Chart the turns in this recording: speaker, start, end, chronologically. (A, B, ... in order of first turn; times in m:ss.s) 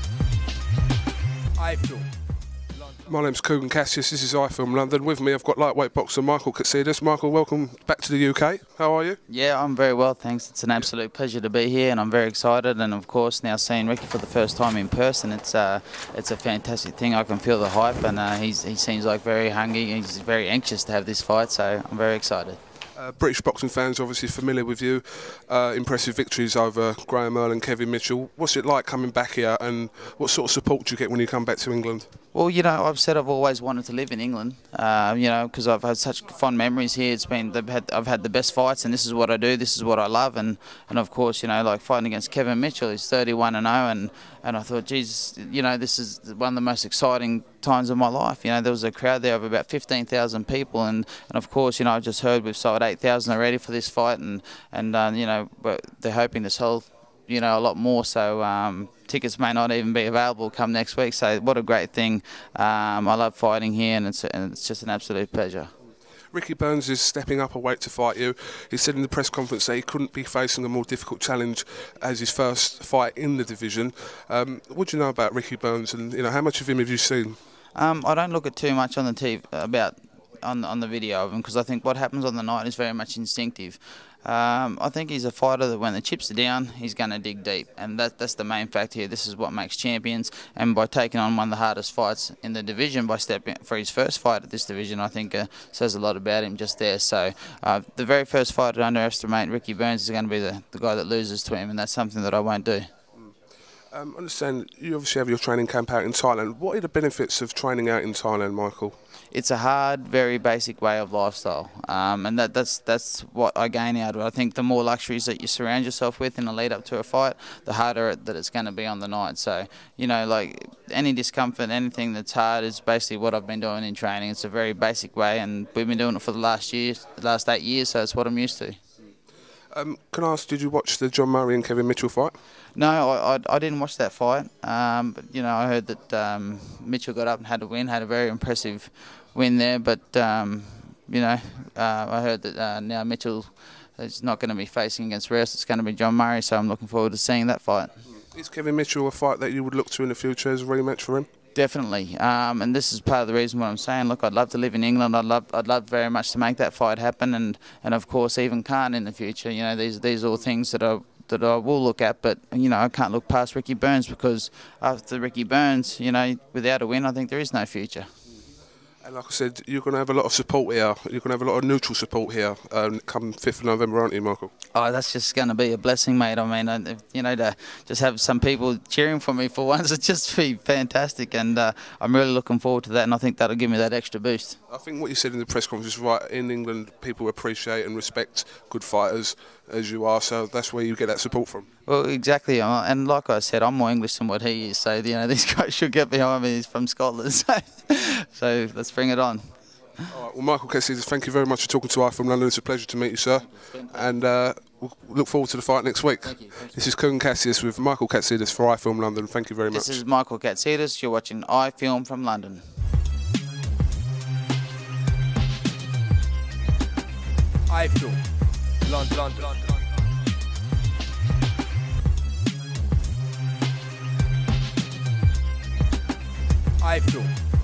0:01.6-0:02.1 A
0:03.0-0:09.2 B
0:09.3-0:22.6 C
0:23.0-0:32.1 B
0:32.3-1:05.7 C
1:06.3-1:17.4 B
1:17.7-1:42.9 C
1:43.9-1:48.9 B
1:49.3-2:08.8 C
2:09.7-2:12.3 B
2:12.8-2:28.0 C
2:28.1-2:31.3 B
2:31.5-2:48.1 C
2:49.0-2:54.5 B
2:54.7-3:04.6 C
3:04.7-3:11.7 B
3:11.8-3:19.5 C
3:20.1-3:30.0 B
3:23.6-3:23.9 C
3:26.3-3:26.8 C
3:29.7-3:32.6 C
3:37.7-3:38.2 A
3:38.8-3:39.7 A
3:46.8-3:47.3 A